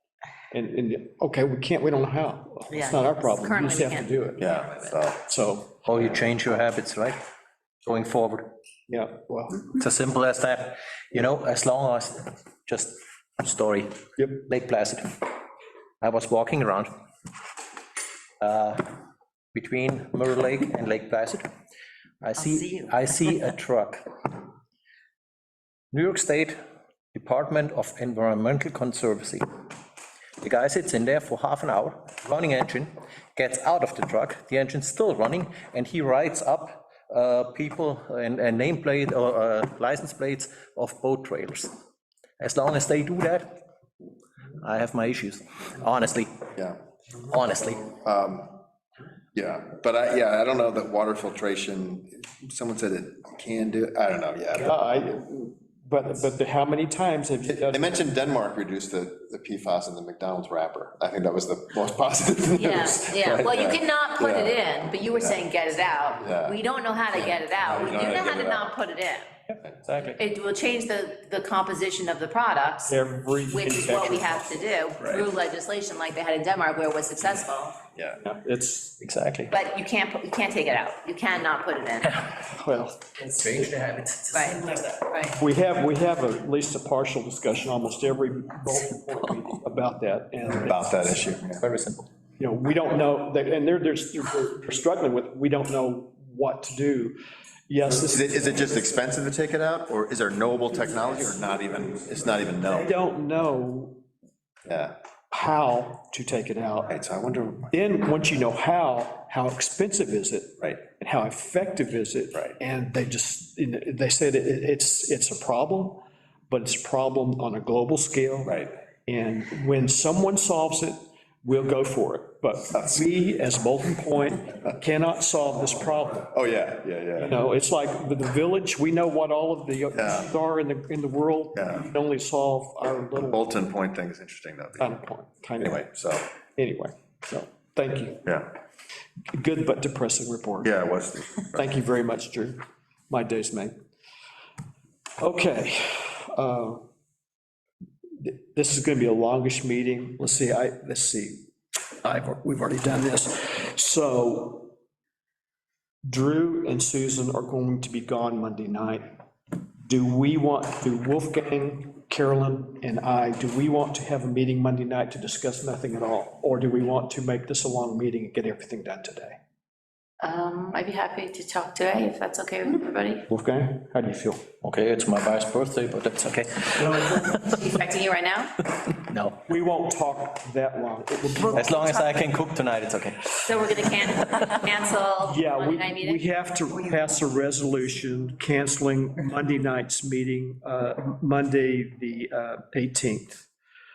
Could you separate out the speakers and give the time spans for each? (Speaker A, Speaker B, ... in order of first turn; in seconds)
Speaker A: 0.5-4.5, 5.2-5.8, 8.9-9.7, 54.6-57.9, 72.9-74.7, 78.2-79.5, 82.4-83.1, 85.4-91.1, 92.4-97.2, 97.7-98.9, 102.7-104.0, 105.3-106.9, 107.7-126.3, 127.2-133.4, 134.8-135.8, 136.4-138.3, 139.3-140.8, 141.5-142.6, 143.1-143.7, 145.2-146.8, 148.2-151.5, 152.0-154.7, 156.0-159.1, 159.8-169.4, 173.3-174.4, 179.5-181.9, 185.2-193.4
Speaker B: 2.7-4.1, 62.5-69.3, 70.1-77.8, 79.5-82.3, 84.3-85.4, 170.2-173.2, 177.0-178.6, 183.4-186.2
Speaker C: 4.4-5.2, 47.9-48.6, 49.3-54.8, 57.5-65.4, 66.2-66.6, 67.7-68.7, 75.0-75.3, 90.6-91.6, 98.0-102.9, 104.7-104.9, 106.9-107.7, 118.5-118.7, 126.3-127.4, 129.9-130.3, 131.5-131.8, 133.2-134.9, 135.6-136.2, 140.6-141.7
Speaker D: 5.8-7.2, 7.8-8.4, 9.7-15.3, 16.0-16.9, 18.4-18.9, 19.5-21.4, 22.2-24.0, 25.9-26.6, 27.1-29.4, 30.4-41.7, 42.4-43.5, 44.6-46.3, 47.3-47.9, 69.8-70.2, 83.2-84.9, 91.6-92.0, 174.6-177.6, 178.9-179.4, 181.5-183.7, 184.3-184.6